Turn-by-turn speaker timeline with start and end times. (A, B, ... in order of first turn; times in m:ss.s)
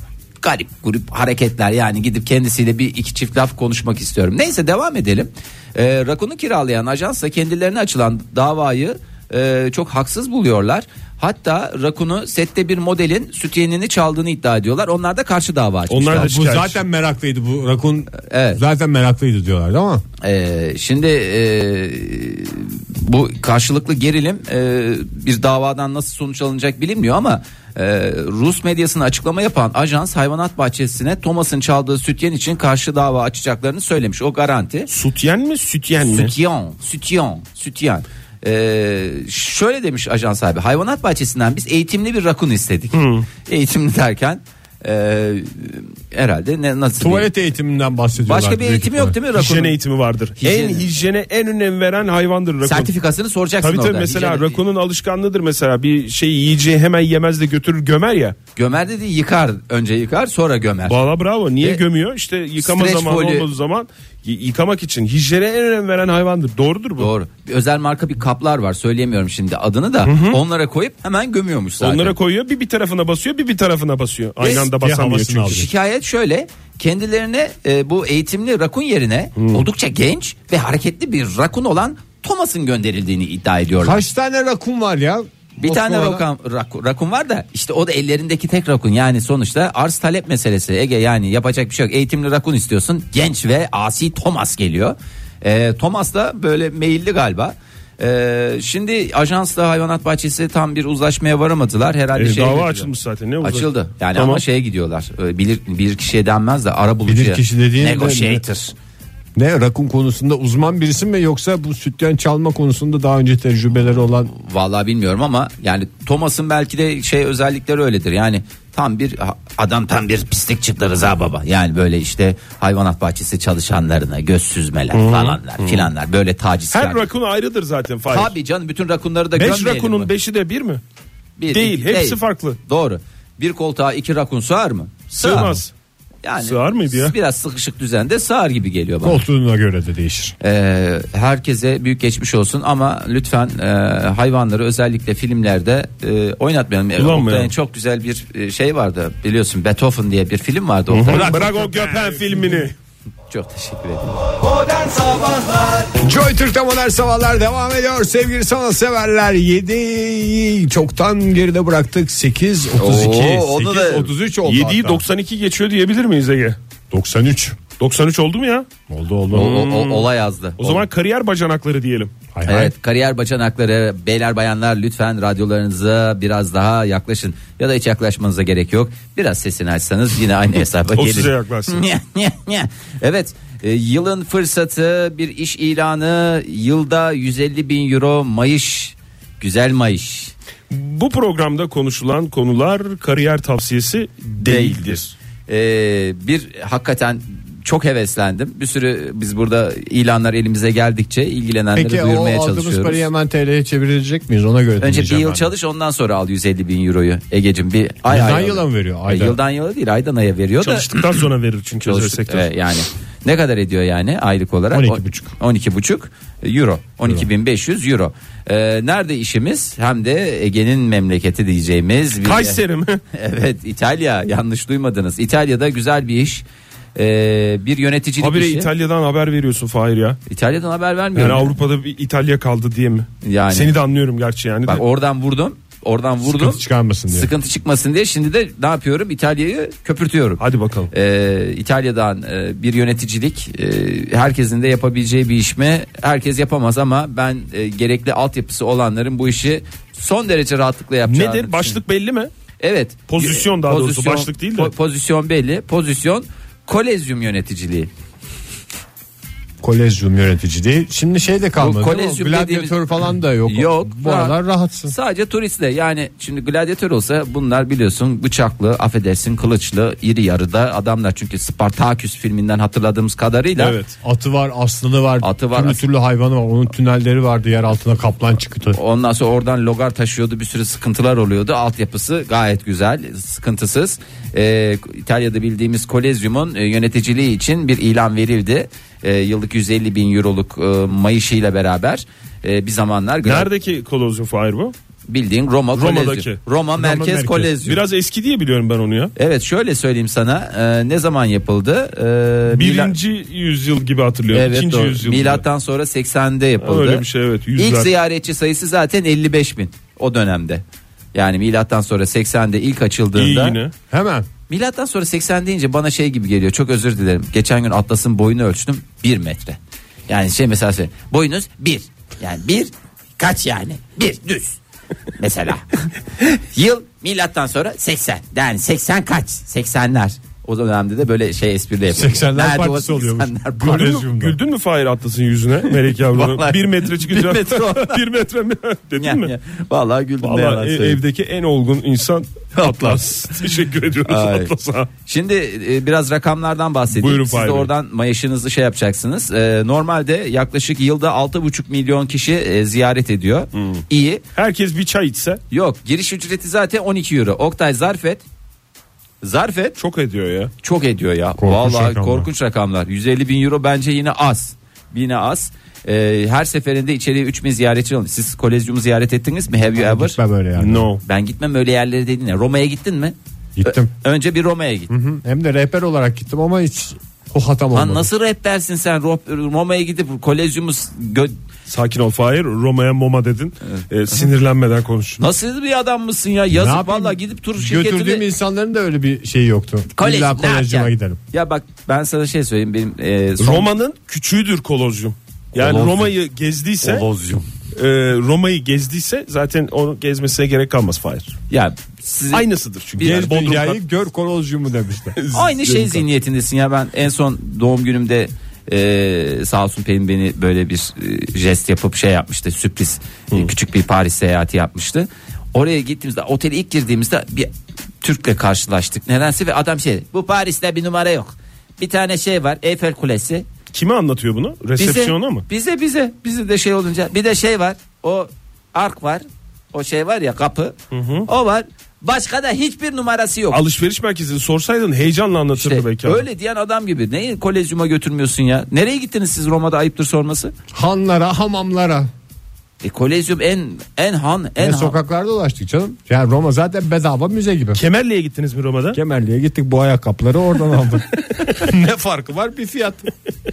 0:00.4-0:16.3 A
0:15.9-0:16.8 B
0:16.1-0:20.0 C
0:18.2-0:18.6 A
0:20.2-0:34.9 A
0:34.9-0:36.3 B
0:36.0-0:47.3 A
0:42.9-0:43.3 B
0:47.0-0:49.2 C
0:48.2-0:49.8 A
0:49.3-0:52.9 B
0:50.4-0:50.9 A
0:52.6-0:54.6 A
0:53.6-0:58.4 B
0:58.5-1:01.0 A
1:00.8-1:07.1 B
1:02.6-1:03.5 A
1:07.0-1:12.1 A
1:10.0-1:10.4 B
1:11.8-1:15.6 B
1:14.4-1:14.7 A
1:14.7-1:15.7 C
1:15.4-1:24.0 A
1:19.4-1:19.6 B
1:23.8-1:26.2 C
1:25.6-1:42.9 A
1:42.1-1:44.4 B
1:43.4-1:48.7 A
1:47.1-1:48.4 C
1:49.4-1:54.3 C
1:54.3-2:07.1 A
2:04.9-2:05.9 B
2:06.7-2:08.3 B
2:08.1-2:10.1 A
2:09.3-2:10.8 B
2:11.4-2:15.6 A
2:11.5-2:12.6 B
2:15.1-2:15.7 B
2:16.2-2:19.2 A
2:16.4-2:17.1 B
2:19.0-2:20.4 C
2:20.4-2:31.4 A
2:27.0-2:27.5 B
2:30.9-2:32.7 B
2:31.1-2:32.7 C
2:33.3-2:35.9 A
2:35.9-2:45.0 C
2:42.8-2:44.1 A
2:44.4-2:46.6 B
2:46.9-2:47.6 C
2:47.8-2:48.7 B
2:48.9-2:49.6 C
2:49.3-2:50.8 A
2:49.3-2:52.6 B
2:52.3-2:52.7 C
2:52.4-3:10.3 A
3:00.9-3:01.8 B
3:10.7-3:15.1 B
3:14.4-3:23.1 A
3:21.7-3:25.5 C
3:24.8-3:31.0 A
3:28.1-3:29.4 C
3:30.6-3:32.5 B
3:31.8-3:42.6 A
3:34.7-3:35.3 C
3:42.2-3:43.0 B
3:43.1-3:46.4 A
3:46.9-3:48.7 A
3:48.2-3:50.2 B
3:50.3-3:51.5 A
3:51.1-3:54.8 B
3:53.2-3:53.7 A
3:54.6-4:11.8 A
3:56.2-3:57.3 C
4:00.4-4:00.9 B
4:11.1-4:12.3 B
4:12.6-4:17.9 A
4:13.1-4:14.7 B
4:19.6-4:24.9 C
4:21.6-4:22.8 A
4:23.4-4:33.8 A
4:33.6-4:33.9 B
4:34.0-4:38.8 C
4:35.2-4:35.8 A
4:38.7-4:53.5 A
4:53.2-4:54.7 B
4:55.1-4:57.8 A
4:55.7-4:56.4 B
4:56.8-4:57.6 C
4:57.6-4:59.1 B
4:59.2-5:02.9 A
5:02.5-5:05.4 B
5:04.3-5:07.0 A
5:06.6-5:07.9 B
5:07.6-5:10.6 A
5:11.1-5:13.6 A
5:13.1-5:13.7 B
5:13.9-5:14.3 C
5:14.5-5:24.6 A
5:25.2-5:34.0 A
5:31.9-5:34.4 C
5:33.6-5:39.3 B
5:35.7-5:38.0 A
5:39.0-5:41.0 A
5:40.2-5:44.9 B
5:42.5-5:43.1 A
5:44.1-5:54.2 A
5:46.9-5:47.7 B
5:53.5-5:53.8 B
5:54.3-5:55.4 B
5:55.5-5:58.2 A
5:59.2-5:59.8 A
5:59.8-6:00.5 B
6:00.6-6:10.2 A
6:01.4-6:02.3 C
6:09.8-6:10.9 C
6:10.6-6:11.0 B
6:11.0-6:14.9 A
6:13.6-6:13.9 C
6:14.9-6:18.1 C
6:17.7-6:21.3 A
6:21.7-6:25.2 B
6:25.2-6:28.3 A
6:26.5-6:31.2 C
6:29.9-6:33.7 A
6:33.4-6:37.0 B
6:35.5-6:36.1 C
6:36.8-6:37.4 A
6:37.7-6:41.3 B
6:41.5-6:43.3 A
6:42.3-6:43.8 B
6:43.0-6:45.2 C
6:45.2-6:46.0 B
6:45.3-6:57.5 A
6:58.0-7:03.4 A
7:03.7-7:05.4 B
7:04.8-7:13.6 A
7:10.9-7:11.3 B
7:13.5-7:16.2 B
7:15.6-7:20.5 A
7:20.7-7:22.1 C
7:22.8-7:25.0 A
7:24.6-7:27.8 C
7:27.7-7:29.0 B
7:28.9-7:33.1 C